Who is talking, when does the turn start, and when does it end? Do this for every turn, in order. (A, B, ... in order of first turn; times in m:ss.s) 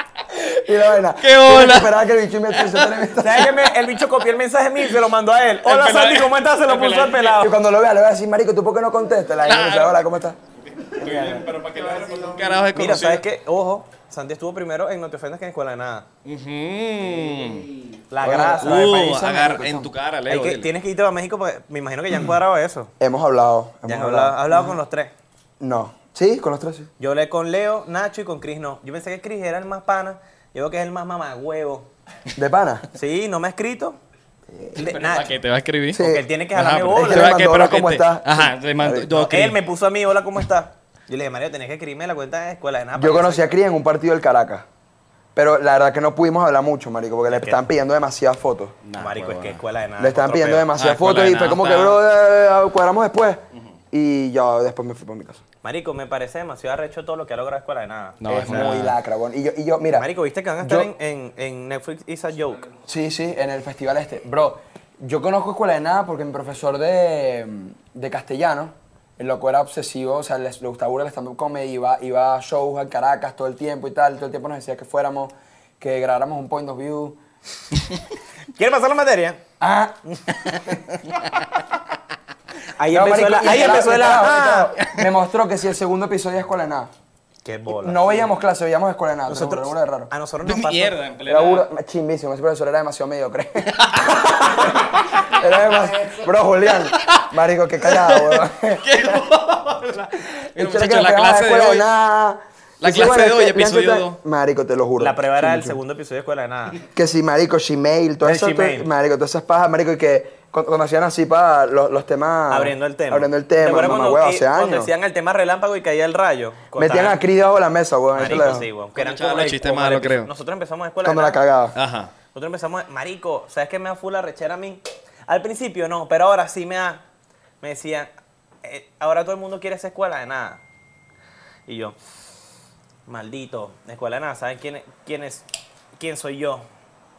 0:00.3-0:03.6 A
0:01.2-0:03.0 B
0:03.2-0:07.6 C
0:05.6-0:07.4 B
0:07.4-0:10.4 A
0:09.4-0:10.0 B
0:10.7-0:13.2 B
0:11.0-0:11.4 A
0:12.7-0:16.1 C
0:16.2-0:17.7 B
0:18.1-0:19.3 C
0:18.2-0:19.9 A
0:18.5-0:20.7 B
0:20.3-0:22.9 C
0:23.0-0:24.8 A
0:23.9-0:25.1 C
0:25.6-0:26.9 A
0:27.0-0:31.9 C
0:32.4-0:32.9 A
0:32.9-0:34.0 C
0:34.8-0:35.3 C
0:34.8-0:39.6 B
0:35.9-0:36.3 A
0:36.0-0:37.4 C
0:37.0-0:39.1 A
0:39.1-0:43.5 C
0:43.0-0:44.7 A
0:45.4-0:48.8 A
0:47.3-0:47.6 C
0:48.8-0:49.6 B
0:49.0-0:50.7 C
0:50.0-0:55.4 A
0:50.7-0:52.0 B
0:55.6-0:58.8 C
0:58.2-0:59.0 B
0:58.3-1:00.1 A
0:59.9-1:02.7 C
1:00.6-1:00.9 A
1:02.9-1:17.2 A
1:18.5-1:19.4 C
1:19.6-1:20.0 A
1:22.8-1:24.8 C
1:22.9-1:26.9 A
1:27.4-1:28.3 C
1:27.8-1:30.1 A
1:29.3-1:31.0 C
1:30.4-1:31.7 B
1:31.3-1:38.8 A
1:33.8-1:36.1 B
1:36.7-1:37.3 B
1:37.8-1:41.9 B
1:40.6-1:45.8 A
1:42.8-1:44.2 B
1:45.0-1:46.8 C
1:46.9-1:54.9 A
1:48.2-1:48.9 C
1:52.5-1:57.2 C
1:56.8-1:58.7 A
1:58.2-2:01.4 C
1:59.0-2:00.3 B
2:01.0-2:01.8 A
2:01.8-2:02.1 B
2:02.3-2:07.0 C
2:07.6-2:08.1 C
2:08.6-2:10.6 C
2:11.7-2:12.0 C
2:13.1-2:15.4 C
2:16.0-2:16.7 C